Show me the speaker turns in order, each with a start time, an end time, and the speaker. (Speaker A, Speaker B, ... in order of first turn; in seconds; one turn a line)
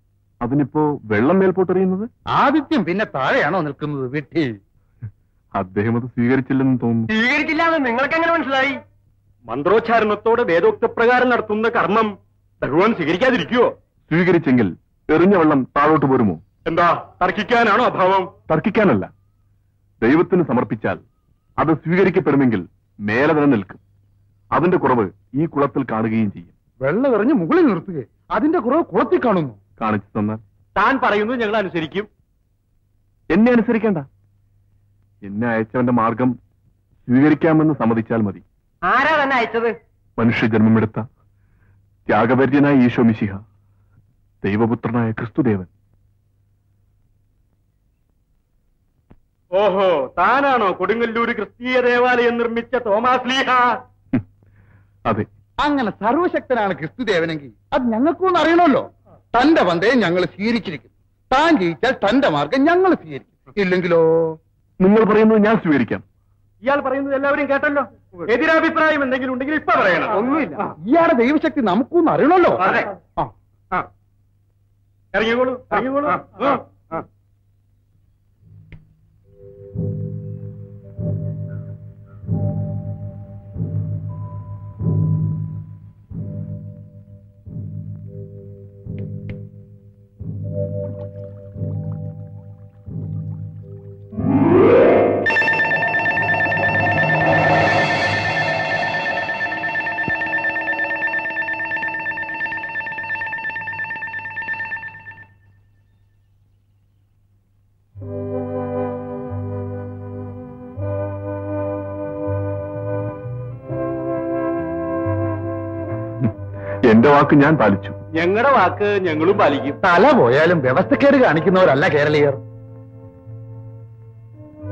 Speaker A: 0.4-2.1
Speaker B: 2.3-4.6
Speaker A: 5.6-7.1
Speaker C: 7.1-8.8
Speaker D: 9.5-13.7
Speaker A: 14.1-16.4
Speaker D: 16.7-18.3
Speaker A: 18.5-19.1
Speaker A: 20.0-21.0
Speaker A: 21.6-23.8
Speaker A: 24.5-26.5
Speaker B: 26.8-29.6
Speaker A: 29.8-30.4
Speaker D: 30.8-32.1
Speaker A: 33.3-34.1
Speaker A: 35.2-36.4
Speaker A: 37.1-38.4
Speaker C: 38.9-39.8
Speaker A: 40.2-41.0
Speaker A: 42.1-43.4
Speaker A: 44.4-45.7
Speaker D: 49.5-53.8
Speaker B: 55.6-64.4
Speaker A: 64.8-66.0
Speaker D: 66.6-70.7
Speaker C: 70.1-70.6
Speaker B: 70.9-73.3
Speaker D: 72.6-72.9
Speaker D: 75.1-76.6
Speaker A: 116.9-118.0
Speaker D: 118.2-119.8
Speaker B: 119.8-122.4